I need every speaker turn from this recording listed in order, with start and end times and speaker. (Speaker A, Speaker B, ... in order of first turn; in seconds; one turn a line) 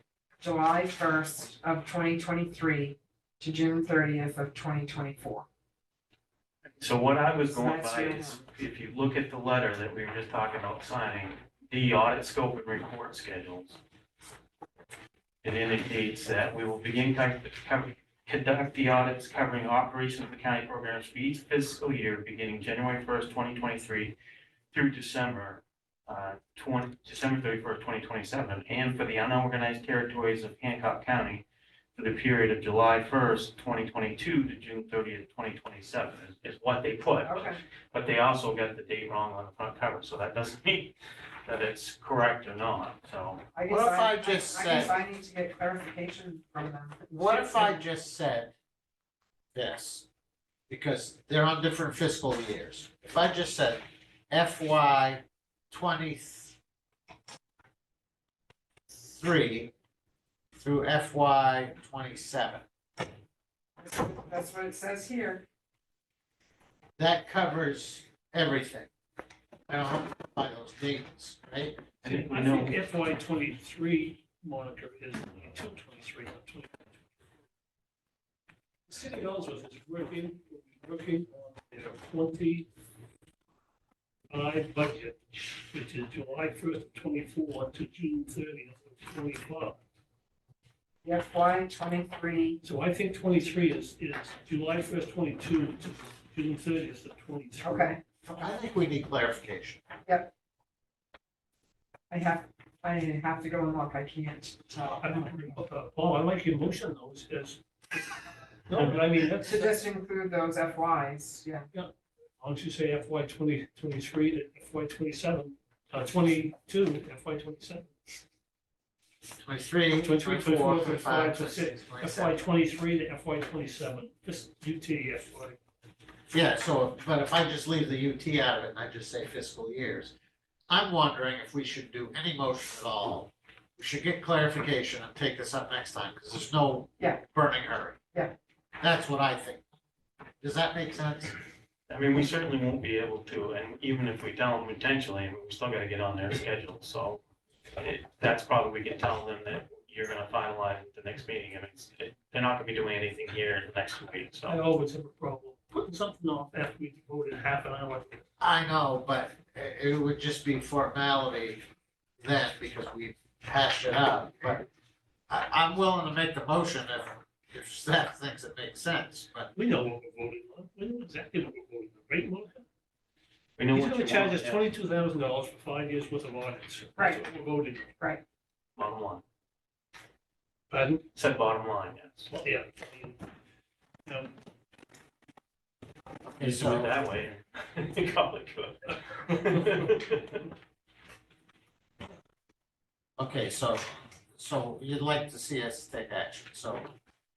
Speaker A: 0.4-5.5
Speaker B: 6.8-13.8
Speaker A: 7.5-8.4
Speaker B: 15.4-24.1
Speaker B: 24.7-31.4
Speaker B: 32.0-43.4
Speaker A: 37.2-37.6
Speaker A: 43.5-47.8
Speaker C: 43.7-45.0
Speaker C: 47.1-48.5
Speaker C: 49.5-50.1
Speaker C: 50.7-56.6
Speaker C: 59.0-59.7
Speaker C: 60.6-62.6
Speaker A: 63.8-65.5
Speaker C: 67.0-68.9
Speaker C: 69.7-72.0
Speaker B: 72.0-72.8
Speaker D: 72.1-76.9
Speaker D: 78.9-82.7
Speaker D: 84.3-89.8
Speaker A: 91.0-92.6
Speaker D: 92.6-97.9
Speaker A: 97.6-98.0
Speaker C: 98.2-99.8
Speaker A: 100.1-100.3
Speaker A: 102.1-105.6
Speaker D: 105.0-107.6
Speaker D: 108.7-109.8
Speaker A: 109.4-111.7
Speaker D: 111.7-117.9
Speaker C: 119.4-122.4
Speaker D: 119.9-125.6
Speaker C: 126.3-130.1
Speaker C: 130.7-138.0
Speaker C: 138.8-139.6
Speaker C: 140.4-141.4
Speaker B: 141.9-147.2
Speaker B: 147.8-154.6
Speaker D: 154.5-158.2
Speaker C: 158.4-161.6
Speaker C: 162.2-164.7
Speaker C: 165.3-169.5
Speaker D: 169.5-172.7
Speaker B: 173.6-174.6
Speaker D: 173.7-177.9
Speaker A: 177.0-177.2
Speaker B: 178.8-179.2
Speaker D: 180.7-181.1
Speaker B: 181.2-182.3
Speaker D: 182.3-183.2
Speaker D: 184.1-184.3
Speaker C: 186.4-186.9
Speaker B: 186.4-190.4
Speaker C: 193.2-196.9